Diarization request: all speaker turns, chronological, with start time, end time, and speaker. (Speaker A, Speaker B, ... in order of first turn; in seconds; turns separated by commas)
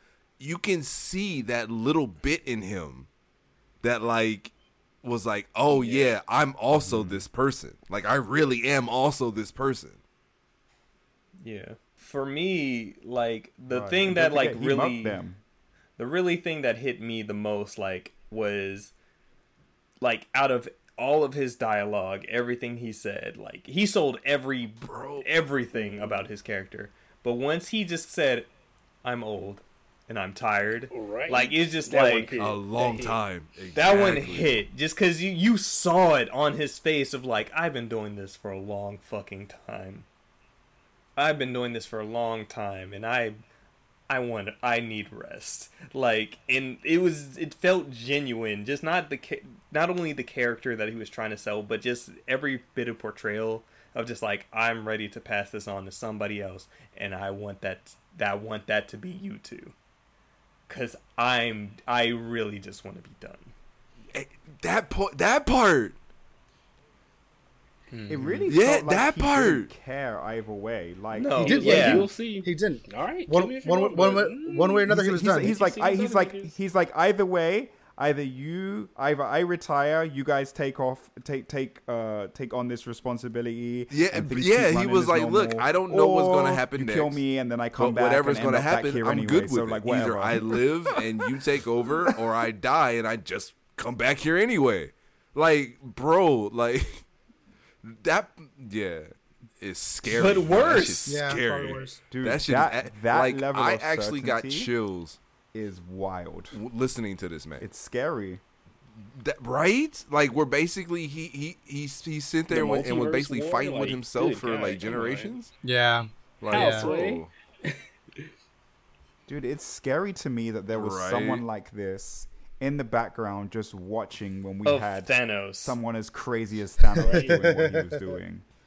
Speaker A: 0.4-3.1, Speaker A: 3.8-4.5, Speaker A: 5.0-10.0, Speaker B: 5.7-6.1, Speaker C: 6.7-7.2, Speaker D: 11.4-15.2, Speaker C: 13.7-15.4, Speaker D: 16.0-18.9, Speaker D: 20.0-28.5, Speaker A: 24.8-25.3, Speaker B: 25.7-26.3, Speaker D: 29.0-32.4, Speaker B: 30.9-33.2, Speaker A: 32.4-34.6, Speaker D: 33.7-40.0, Speaker D: 41.1-43.4, Speaker D: 44.1-59.7, Speaker D: 60.7-63.5, Speaker A: 64.1-66.0, Speaker D: 67.9-68.5, Speaker C: 68.1-72.0, Speaker A: 68.5-69.7, Speaker D: 71.1-72.1, Speaker B: 71.4-76.6, Speaker E: 71.4-75.6, Speaker C: 74.9-90.6, Speaker A: 83.9-87.2, Speaker A: 87.8-97.0, Speaker A: 97.8-105.2, Speaker D: 100.0-101.2, Speaker E: 101.0-102.0, Speaker C: 102.1-104.7, Speaker C: 105.5-106.6, Speaker A: 106.5-107.7, Speaker C: 107.6-108.4, Speaker A: 109.0-115.5, Speaker B: 112.5-115.3, Speaker E: 115.6-116.9, Speaker A: 116.4-117.3, Speaker B: 116.5-118.3, Speaker C: 119.3-128.4, Speaker A: 120.7-121.5, Speaker D: 124.6-125.8, Speaker B: 127.0-127.4, Speaker E: 127.0-128.1